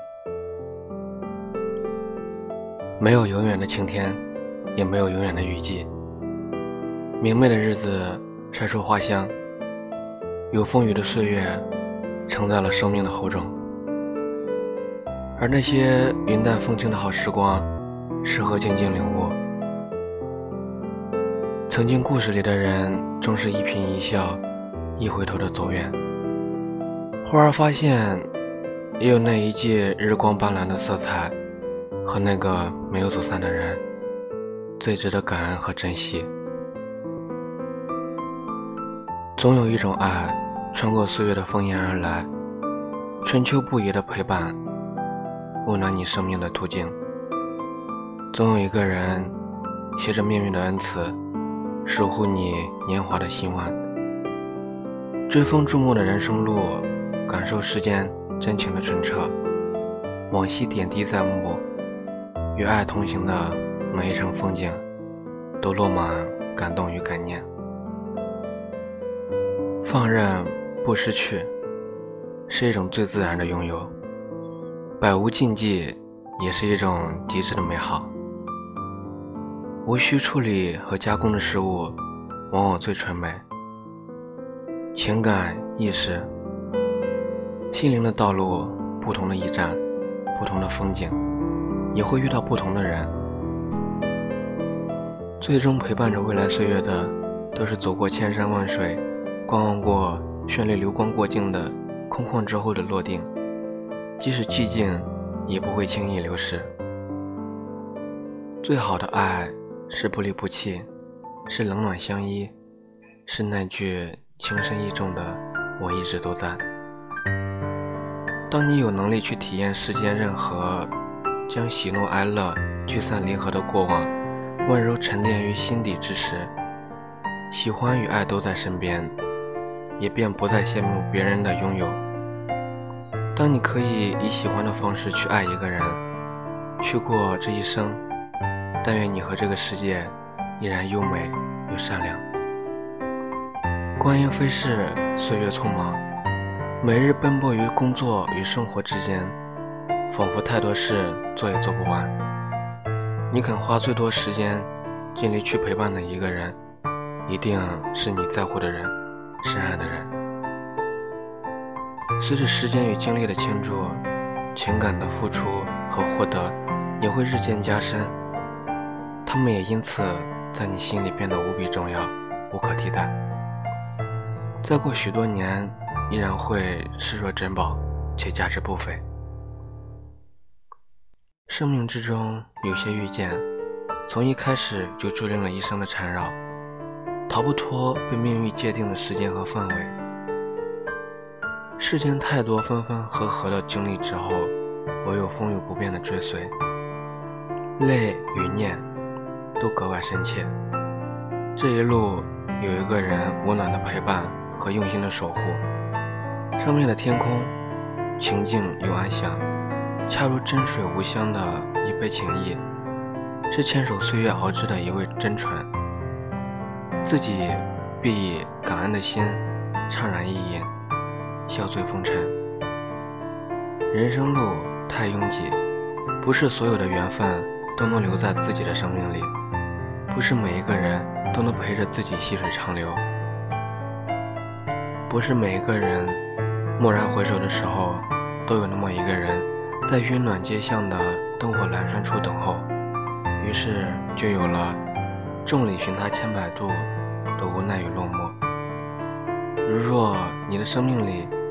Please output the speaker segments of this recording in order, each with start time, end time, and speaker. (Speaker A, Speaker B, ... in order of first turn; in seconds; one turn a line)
Speaker A: 3.0-4.2
Speaker A: 4.7-5.9
Speaker A: 7.2-9.3
Speaker A: 10.5-11.7
Speaker A: 12.3-13.6
Speaker A: 15.4-17.7
Speaker A: 18.2-19.4
Speaker A: 21.7-24.4
Speaker A: 25.0-26.0
Speaker A: 27.2-28.3
Speaker A: 29.0-31.3
Speaker A: 32.0-33.8
Speaker A: 34.8-36.3
Speaker A: 39.4-42.3
Speaker A: 43.2-44.6
Speaker A: 45.6-47.0
Speaker A: 48.3-49.3
Speaker A: 50.0-51.2
Speaker A: 51.8-53.8
Speaker A: 55.3-59.3
Speaker A: 60.3-61.6
Speaker A: 62.5-64.8
Speaker A: 65.6-67.5
Speaker A: 69.8-71.5
Speaker A: 72.5-73.9
Speaker A: 75.0-78.1
Speaker A: 79.8-82.0
Speaker A: 82.5-83.4
Speaker A: 84.9-86.3
Speaker A: 87.7-89.8
Speaker A: 90.3-91.2
Speaker A: 91.9-93.1
Speaker A: 95.4-103.3
Speaker A: 104.2-106.7
Speaker A: 108.6-110.9
Speaker A: 111.5-112.5
Speaker A: 113.2-116.6
Speaker A: 118.5-120.9
Speaker A: 121.5-124.1
Speaker A: 124.6-126.5
Speaker A: 127.5-129.2
Speaker A: 130.0-132.0
Speaker A: 133.3-136.0
Speaker A: 136.8-138.0
Speaker A: 138.8-142.2
Speaker A: 144.0-146.0
Speaker A: 146.8-149.3
Speaker A: 150.1-152.1
Speaker A: 153.3-156.6
Speaker A: 157.2-160.1
Speaker A: 162.2-164.0
Speaker A: 164.5-168.1
Speaker A: 169.2-173.2
Speaker A: 174.6-179.0
Speaker A: 181.5-183.4
Speaker A: 184.1-186.4
Speaker A: 187.3-190.0
Speaker A: 191.8-196.5
Speaker A: 197.8-198.8
Speaker A: 199.6-200.5
Speaker A: 201.6-205.6
Speaker A: 206.6-207.5
Speaker A: 208.2-209.4
Speaker A: 210.1-212.6
Speaker A: 213.5-215.7
Speaker A: 217.0-220.7
Speaker A: 221.5-222.3
Speaker A: 223.9-225.6
Speaker A: 226.2-229.3
Speaker A: 230.1-233.0
Speaker A: 235.1-236.2
Speaker A: 236.8-242.7
Speaker A: 243.4-244.8
Speaker A: 245.4-248.4
Speaker A: 249.6-251.3